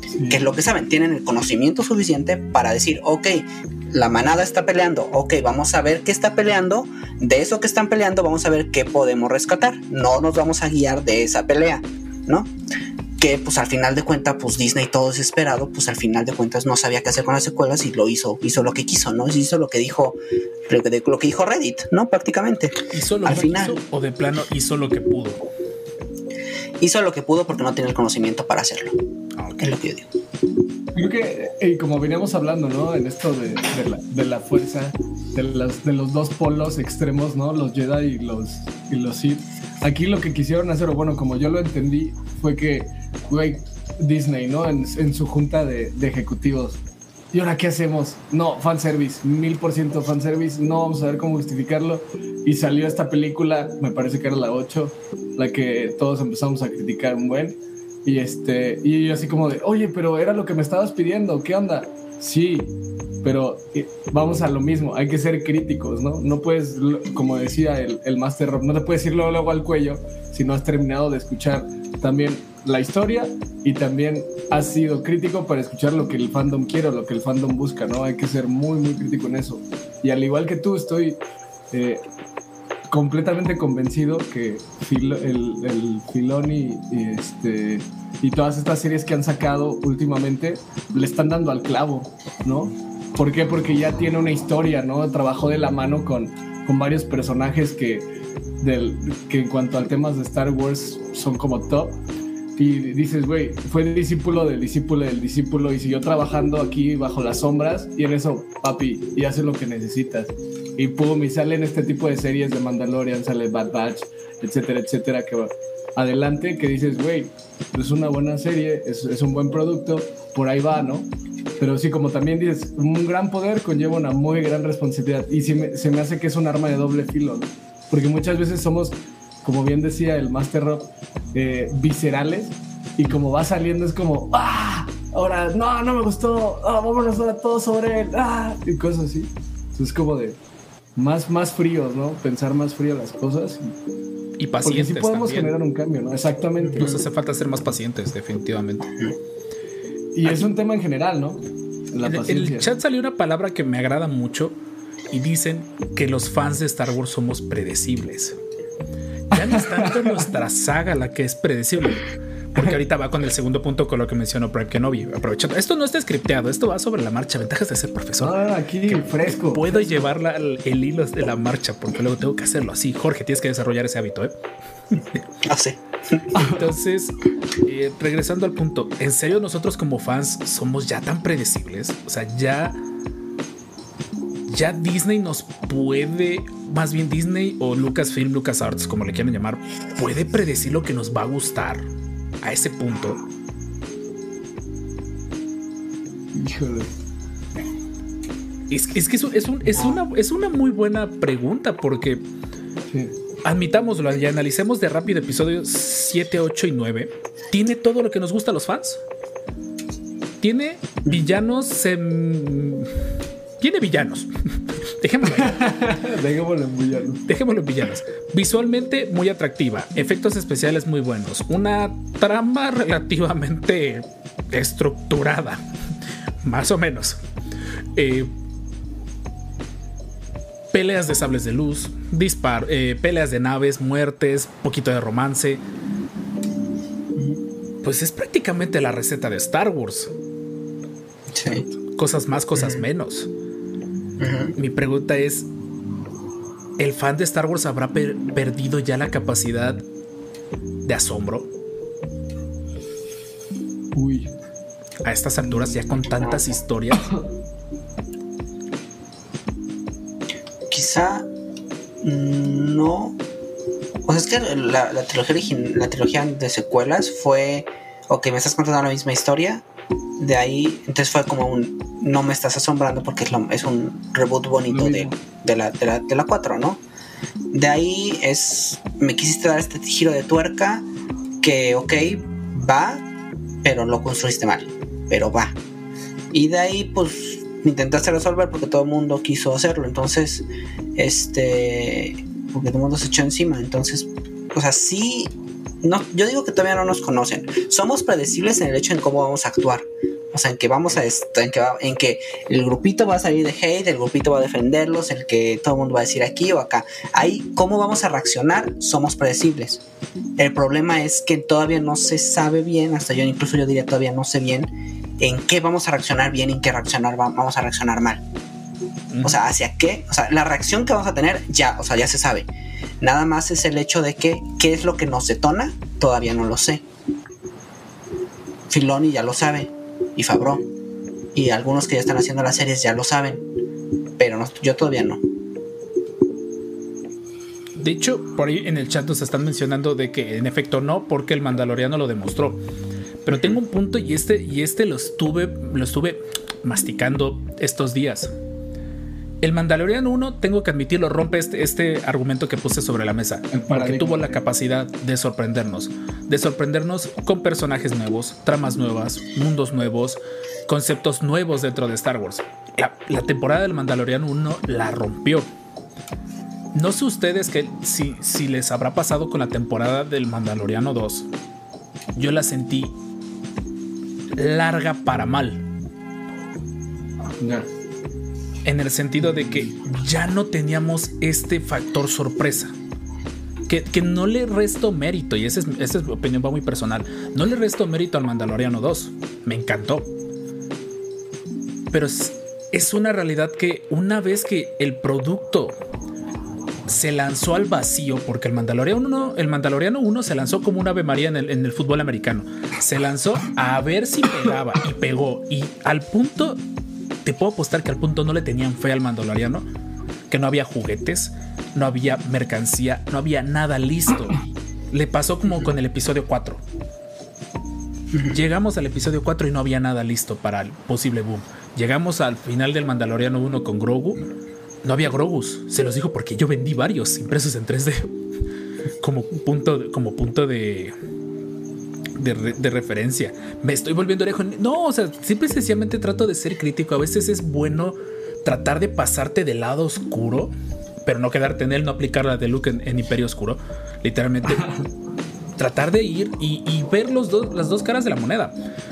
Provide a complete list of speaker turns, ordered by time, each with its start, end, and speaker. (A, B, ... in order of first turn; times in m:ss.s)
0:00.2-0:00.4 A
0:00.3-0:12.5 B
0:13.2-0:23.8 B
0:22.9-0:25.4 C
0:26.8-0:29.0 B
0:29.4-0:29.8 C
0:29.6-0:30.1 B
0:30.9-1:22.0 A
1:22.9-1:38.0 A
1:38.6-1:42.0 A
1:42.6-2:20.4 A
2:21.0-2:23.8 A
2:24.4-2:25.5 C
2:24.6-2:27.0 A
2:26.8-2:28.9 C
2:30.2-2:32.7 A
2:32.0-2:34.6 C
2:35.1-2:38.4 C
2:39.3-2:54.4 C
2:39.3-2:40.3 A
2:48.2-2:49.9 A
2:54.9-2:55.2 C
2:55.4-2:56.3 B
2:56.4-2:56.6 A
2:56.4-3:02.8 C
3:04.5-3:11.8 C
3:12.4-3:13.2 C
3:16.3-3:16.9 A
3:18.7-3:22.2 C
3:19.7-3:20.0 B
3:22.9-3:23.2 A
3:23.4-3:29.0 C
3:30.4-3:33.0 C
3:33.6-3:35.7 C
3:35.3-3:37.2 A
3:37.3-3:45.6 C
3:46.4-3:47.2 C
3:48.0-3:48.3 C
3:50.7-3:55.6 C
3:57.8-4:00.1 C
4:01.3-4:01.6 B
4:02.0-4:03.3 C
4:02.6-4:02.8 B
4:04.2-4:04.6 B
4:04.6-4:05.5 C
4:06.8-4:09.8 C
4:10.8-4:11.5 C
4:13.9-4:14.3 A
4:15.0-4:17.1 C
4:15.4-4:15.8 A
4:16.1-4:16.6 B
4:16.9-4:17.2 A
4:20.7-4:21.3 B
4:22.0-4:23.2 B
4:24.1-4:29.6 B
4:30.2-4:36.8 B
4:34.7-4:35.2 A
4:37.5-4:40.9 B
4:41.4-4:43.0 B
4:43.6-4:45.6 B
4:46.3-5:09.8 B
5:10.4-5:18.2 B
5:19.1-5:19.4 C
5:19.2-5:22.5 B
5:23.0-5:26.8 B
5:28.7-5:30.6 B
5:31.4-5:33.4 B
5:34.2-5:35.2 B
5:37.8-5:42.6 C
5:43.2-5:48.3 C
5:49.4-6:05.5 C
5:53.5-5:54.4 A
6:06.7-6:11.3 C
6:12.2-6:12.9 C
6:14.4-6:15.6 C
6:17.4-6:17.7 A
6:18.6-6:22.8 C
6:23.7-6:30.1 C
6:31.9-6:35.8 C
6:36.9-6:46.6 C
6:47.2-6:49.6 C
6:50.3-6:56.6 C
6:58.3-7:04.2 C
7:04.8-7:08.1 C
7:09.0-7:11.0 C
7:12.2-7:20.5 C
7:21.0-7:24.8 C
7:25.6-7:28.6 C